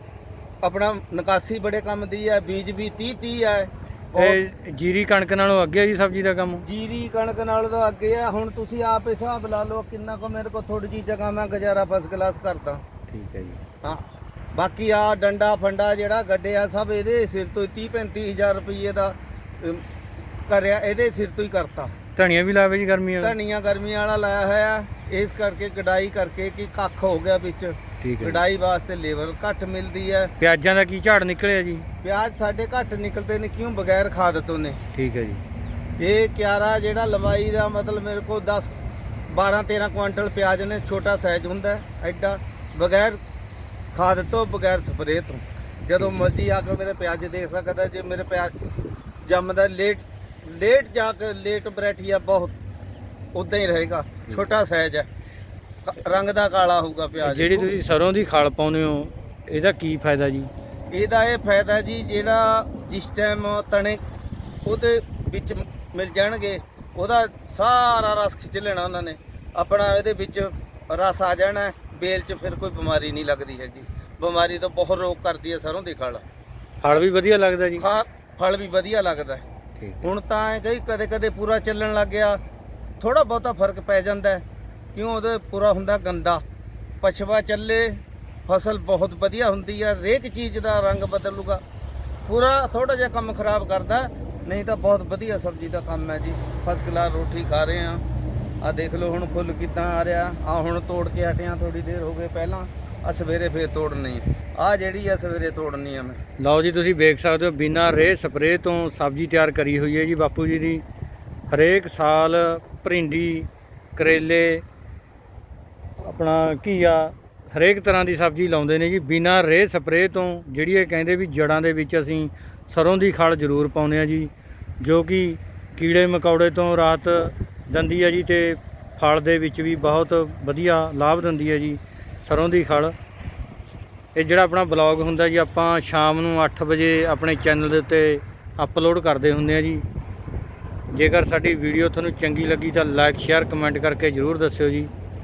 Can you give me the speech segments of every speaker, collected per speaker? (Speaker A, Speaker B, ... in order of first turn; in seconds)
Speaker A: 0.6-4.4, 6.6-12.8, 13.8-19.8, 20.4-21.9, 23.2-30.3, 32.0-34.8, 36.0-38.7, 39.3-43.2, 43.9-48.5, 49.2-52.5, 53.3-55.1, 55.9-57.7, 60.9-64.0, 64.6-76.2, 77.8-79.4, 80.0-82.4, 83.0-84.4, 84.9-86.4, 87.0-91.6, 92.2-98.0, 98.6-106.2
Speaker B: 4.2-6.6, 13.1-13.6, 22.2-23.3, 28.0-28.4, 30.4-31.9, 34.9-35.4, 57.2-60.5, 76.8-77.8, 79.8-80.1, 106.4-110.8, 111.5-114.6, 116.0-124.3, 124.8-132.9, 134.1-139.8, 140.9-144.9